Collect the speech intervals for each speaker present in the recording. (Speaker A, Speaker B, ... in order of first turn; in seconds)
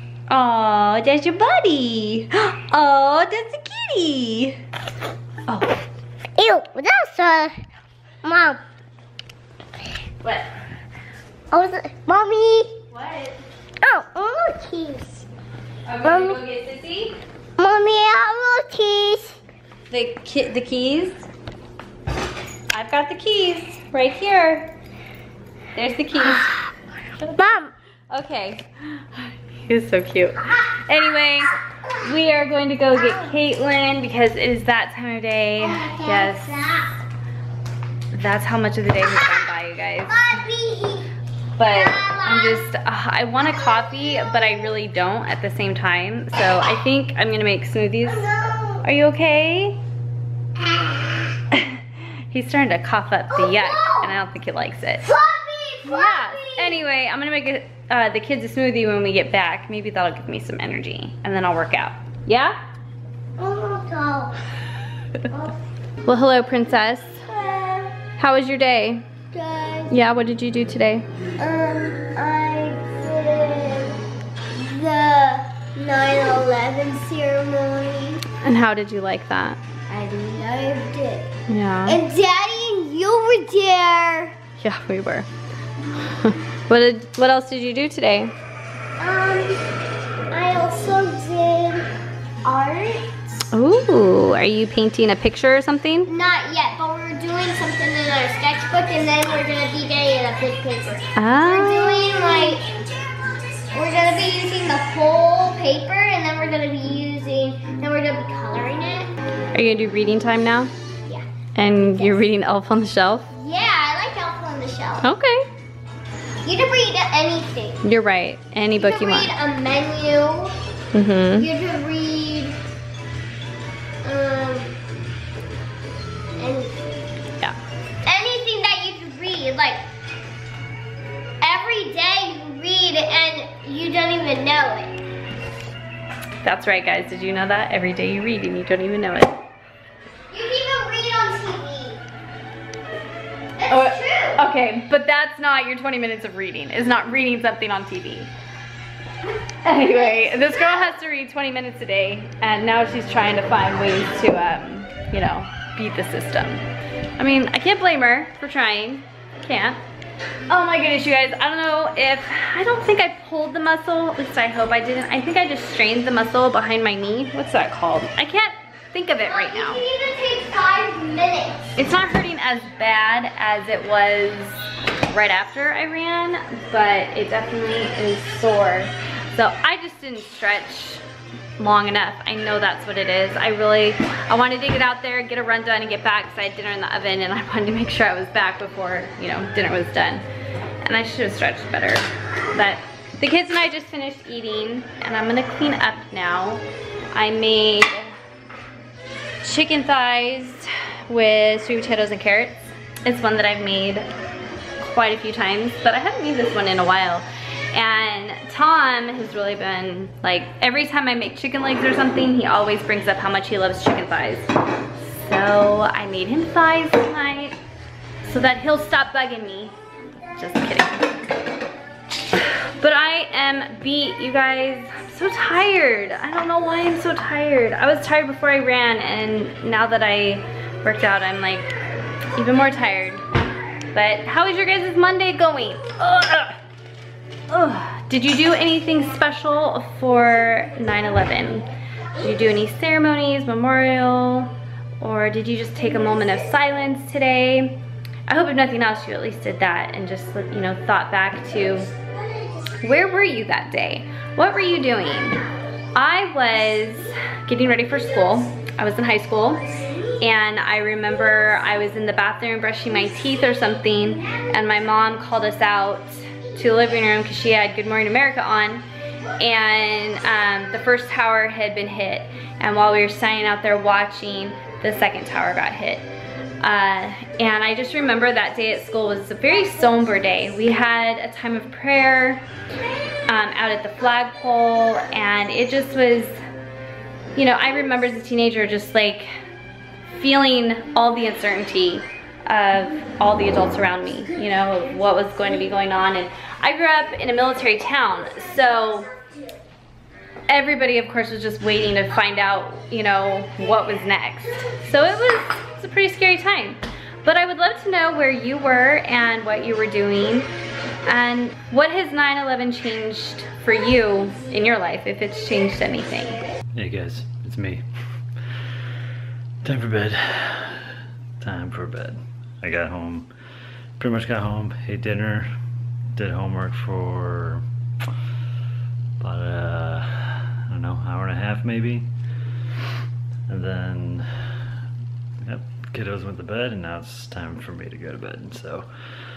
Speaker A: 0.3-4.6, 5.5-5.7, 12.9-13.4, 15.8-17.2, 19.9-21.3, 22.7-24.7, 25.7-26.6, 27.2-27.6, 28.1-36.6, 38.1-40.4, 41.6-48.3, 48.8-49.8, 51.5-55.1, 55.8-62.5, 66.0-67.2, 68.2-69.0, 69.9-71.0, 78.4-79.6, 81.5-82.0, 84.6-85.3, 86.0-88.3, 93.5-96.1, 101.2-102.3, 109.5-110.7, 111.5-113.3, 115.0-115.5, 117.8-119.3, 120.9-121.5, 136.4-139.4, 143.7-148.3, 149.6-156.6, 157.2-159.8, 160.5-169.8, 171.8-181.0, 181.6-190.2, 190.8-198.1, 199.4-204.1, 204.8-214.5, 215.0-217.6, 218.2-219.7, 220.3-221.2, 222.3-231.7, 232.3-233.3, 233.9-236.6, 237.5-241.7, 242.2-251.9, 252.8-255.4, 255.9-259.6, 260.2-268.8, 269.4-276.1, 276.6-282.4, 283.3-286.4, 287.4-289.3, 290.1-299.1, 300.5-310.5, 311.1-316.4
Speaker B: 6.4-7.5, 8.2-8.6, 11.5-12.7, 13.8-15.2, 16.0-16.4, 17.6-19.3, 27.4-27.7, 35.6-36.9, 40.1-41.1, 41.6-42.6, 48.0-48.8, 53.3-54.1, 55.0-56.8, 63.4-64.3, 65.3-65.5, 67.3-67.9, 69.3-69.9, 71.4-74.0, 74.5-78.2, 79.9-81.3, 81.8-84.4, 89.0-89.6, 90.3-91.9, 92.4-93.1, 96.1-102.9, 103.5-109.1, 111.0-112.3, 113.3-115.1, 116.4-117.8, 118.8-120.5, 121.3-122.6, 124.0-124.7, 126.4-126.8, 128.0-129.8, 131.4-135.0, 140.3-142.0, 143.6-144.4, 150.1-150.5, 169.2-171.7
Speaker C: 316.7-317.8, 319.6-323.3, 324.0-325.5, 326.1-327.6, 329.2-332.1, 333.5-334.6, 335.4-338.9